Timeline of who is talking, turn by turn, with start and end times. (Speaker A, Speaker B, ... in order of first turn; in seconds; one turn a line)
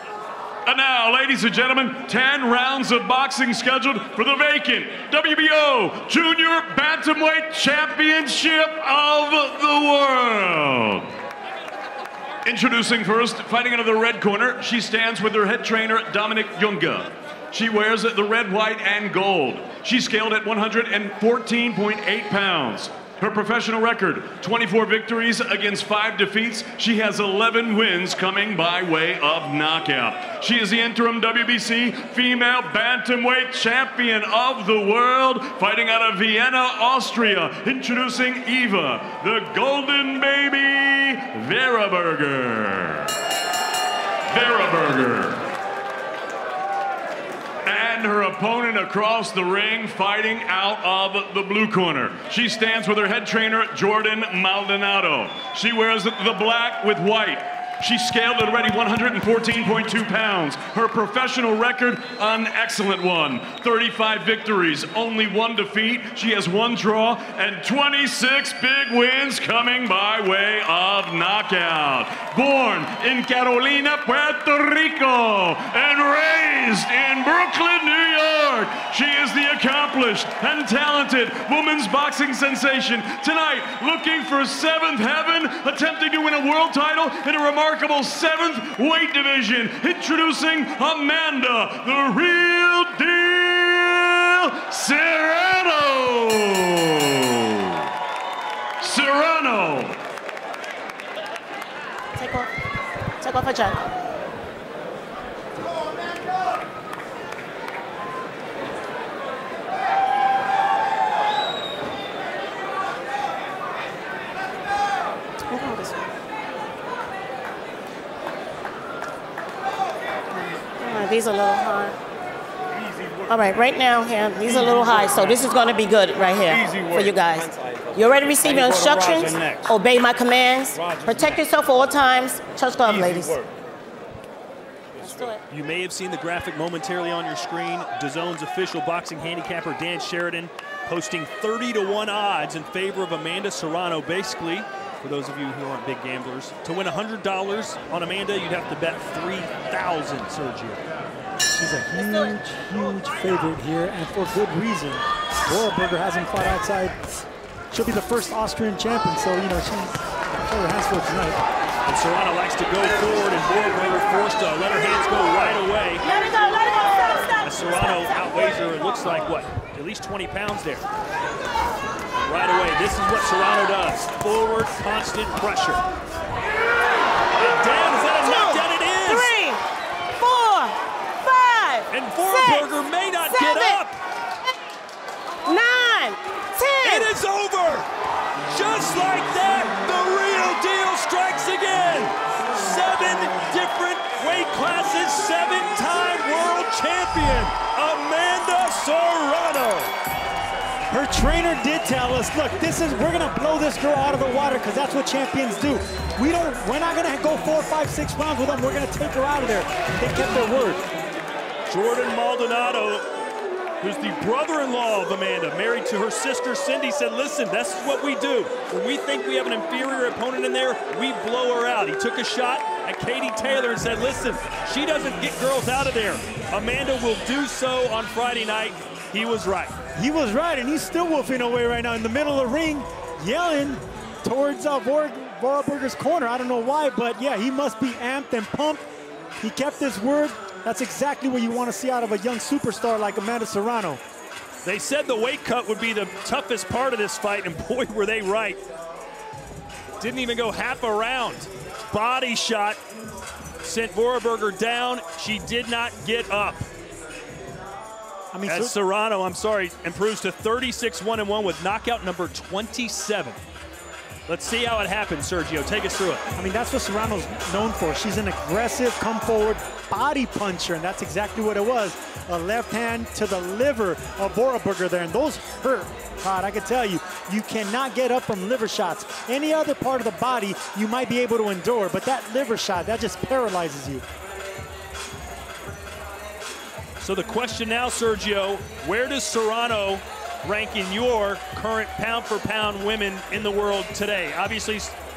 Speaker A: 0.7-11.1
Speaker A: 12.4-43.1
Speaker A: 44.3-45.4
Speaker A: 47.6-97.8
Speaker A: 98.8-100.0
Speaker B: 102.2-102.5
Speaker B: 103.2-103.9
Speaker B: 115.4-116.1
Speaker B: 120.4-122.0
Speaker B: 123.2-133.4
Speaker B: 135.0-135.4
Speaker C: 135.5-150.8
Speaker D: 151.5-157.0
Speaker D: 157.7-161.4
Speaker C: 161.8-166.1
Speaker B: 166.1-167.4
Speaker C: 167.4-170.9
Speaker C: 172.2-175.8
Speaker C: 177.4-179.3
Speaker B: 178.2-179.6
Speaker B: 180.2-182.7
Speaker C: 181.9-184.0
Speaker B: 183.3-183.8
Speaker B: 185.4-187.1
Speaker C: 186.8-187.9
Speaker C: 188.5-199.9
Speaker D: 200.9-210.8
Speaker C: 211.7-213.1
Speaker C: 213.8-229.7
Speaker D: 229.9-238.8
Speaker D: 239.4-244.0
Speaker C: 244.6-248.6
Speaker C: 250.0-252.8
Speaker C: 253.6-256.7
Speaker D: 258.3-258.8
Speaker C: 258.5-263.4
Speaker C: 264.3-266.2
Speaker D: 266.4-284.0
Speaker C: 287.0-295.0